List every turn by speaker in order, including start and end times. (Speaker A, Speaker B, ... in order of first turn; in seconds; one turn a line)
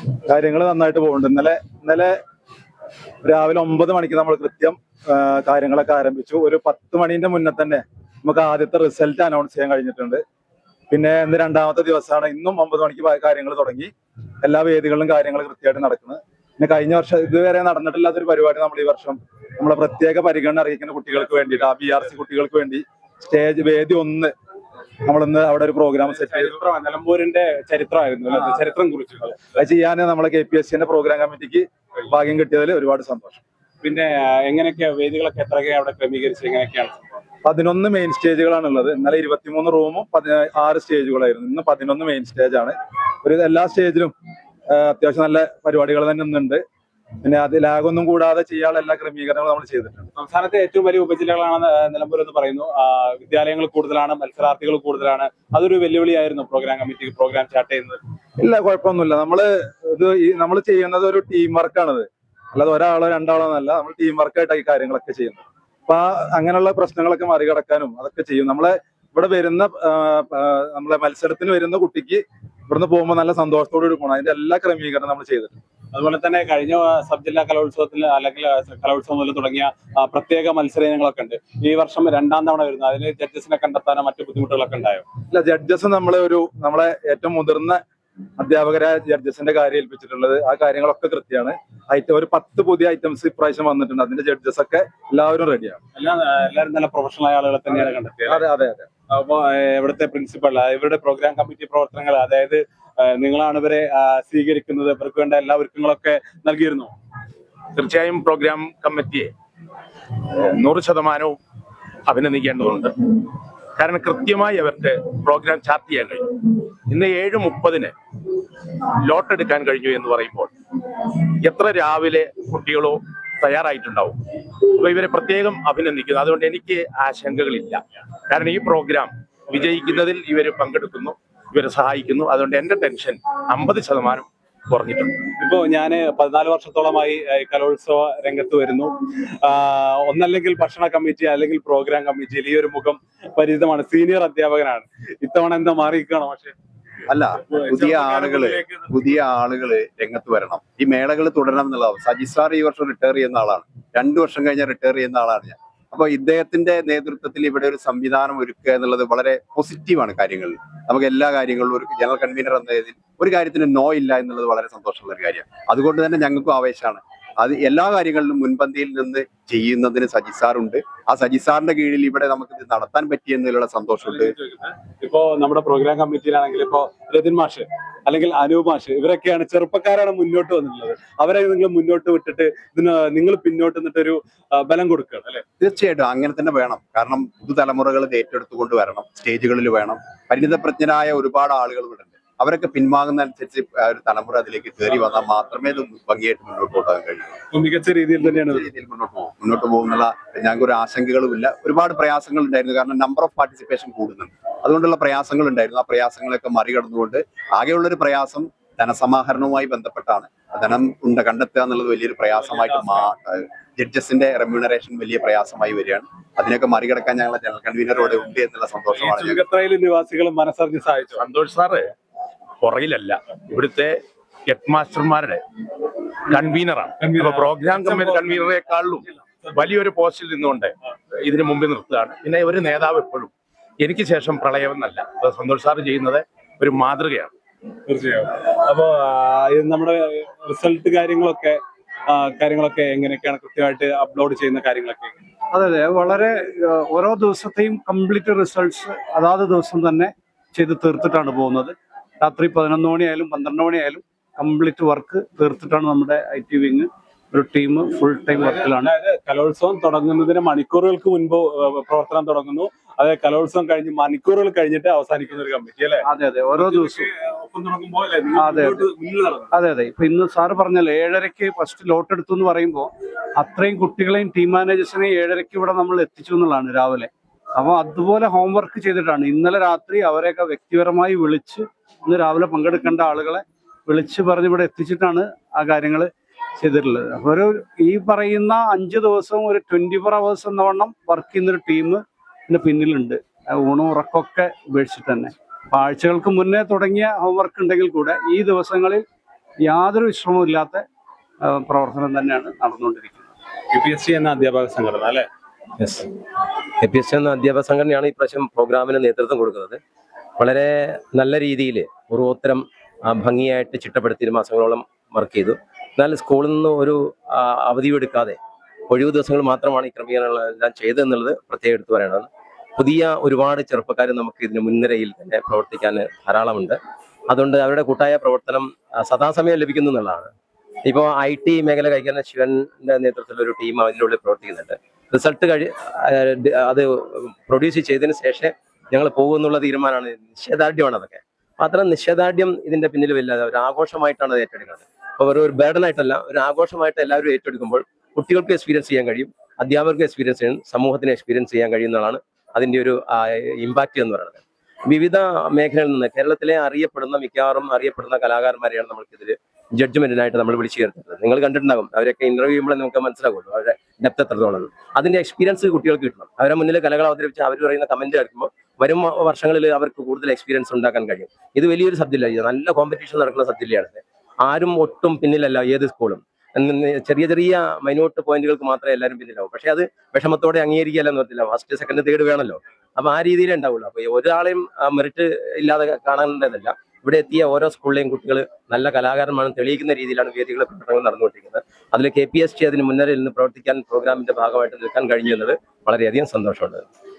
Speaker A: 0.3-2.1
Speaker A: 3.2-10.2
Speaker A: 10.9-13.9
Speaker A: 14.4-24.3
Speaker A: 25.1-26.6
Speaker B: 26.1-29.5
Speaker A: 29.6-33.4
Speaker B: 33.8-37.0
Speaker A: 37.4-44.1
Speaker A: 44.7-46.6
Speaker A: 47.2-50.1
Speaker B: 50.1-58.0
Speaker A: 58.4-75.5
Speaker B: 75.9-85.0
Speaker A: 85.3-87.8
Speaker A: 88.4-95.8
Speaker B: 96.0-98.4
Speaker A: 98.3-98.9
Speaker B: 99.1-106.9
Speaker C: 107.8-109.3
Speaker C: 110.3-111.4
Speaker C: 112.1-112.9
Speaker C: 113.8-116.2
Speaker C: 116.9-117.9
Speaker C: 119.0-120.5
Speaker C: 121.4-124.2
Speaker C: 124.8-135.1
Speaker B: 135.4-138.9
Speaker B: 139.4-146.6
Speaker D: 147.1-174.3
Speaker B: 147.4-149.0
Speaker B: 174.0-185.4
Speaker D: 185.6-197.4
Speaker B: 197.5-198.7
Speaker D: 198.3-219.4
Speaker B: 212.4-213.1
Speaker B: 218.9-221.2
Speaker C: 221.2-221.9
Speaker C: 222.6-225.4
Speaker C: 226.3-237.3
Speaker B: 227.0-228.5
Speaker B: 237.9-245.2
Speaker E: 245.5-258.9
Speaker B: 258.3-269.5
Speaker E: 266.0-267.1
Speaker E: 268.3-268.8
Speaker E: 269.5-299.0
Speaker E: 299.6-300.8
Speaker E: 301.4-303.3
Speaker B: 303.7-305.3
Speaker F: 305.8-306.1
Speaker F: 306.8-309.8
Speaker F: 310.4-318.4
Speaker F: 318.9-326.8
Speaker F: 327.3-330.3
Speaker F: 330.8-396.8